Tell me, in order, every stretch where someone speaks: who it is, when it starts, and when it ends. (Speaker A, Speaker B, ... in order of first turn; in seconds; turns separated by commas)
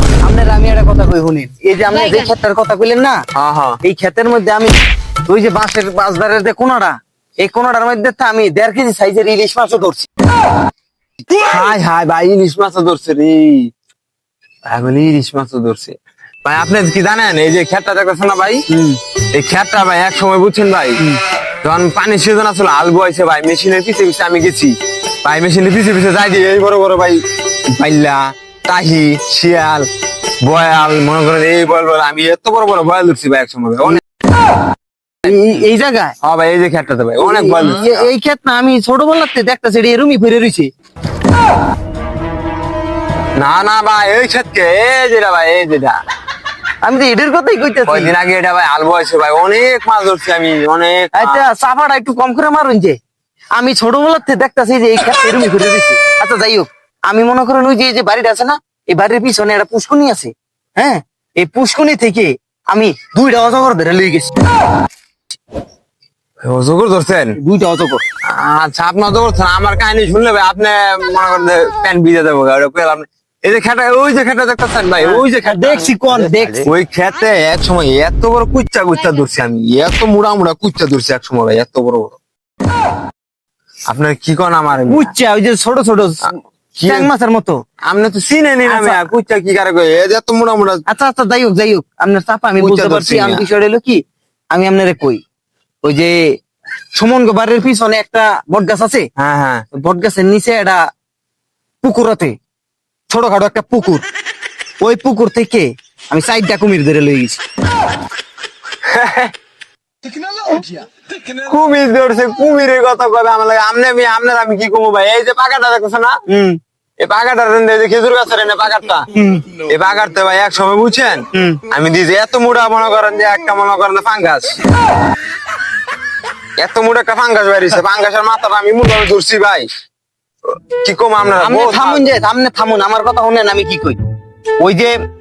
Speaker A: 0.2-3.2, Speaker B: 3.3-3.8, Speaker A: 3.8-10.1, Speaker B: 11.3-13.7, Speaker B: 14.7-18.6, Speaker A: 18.7-19.0, Speaker B: 19.3-21.0, Speaker B: 21.6-29.9, Speaker B: 30.4-34.0, Speaker A: 35.2-36.1, Speaker B: 36.2-38.1, Speaker A: 37.2-40.7, Speaker B: 43.4-46.0, Speaker A: 46.8-48.1, Speaker B: 47.9-51.5, Speaker A: 51.1-53.0, Speaker A: 53.5-64.3, Speaker B: 66.4-67.4, Speaker A: 67.3-68.0, Speaker B: 68.2-82.2, Speaker A: 75.0-76.7, Speaker B: 83.9-85.1, Speaker A: 84.9-86.3, Speaker B: 86.8-87.1, Speaker A: 86.8-87.6, Speaker B: 87.9-90.8, Speaker A: 88.6-89.1, Speaker A: 90.9-94.0, Speaker B: 92.6-93.5, Speaker A: 94.5-95.2, Speaker A: 95.8-96.2, Speaker A: 97.0-99.1, Speaker B: 99.2-99.6, Speaker A: 99.7-100.8, Speaker A: 101.8-102.3, Speaker A: 103.1-104.0, Speaker A: 104.8-107.4, Speaker B: 108.8-109.3, Speaker B: 111.2-116.2, Speaker A: 116.3-116.6, Speaker B: 117.0-124.6, Speaker A: 119.1-119.5, Speaker A: 121.3-121.6, Speaker B: 126.6-129.7, Speaker B: 130.5-132.1, Speaker A: 131.4-134.0, Speaker A: 134.6-135.0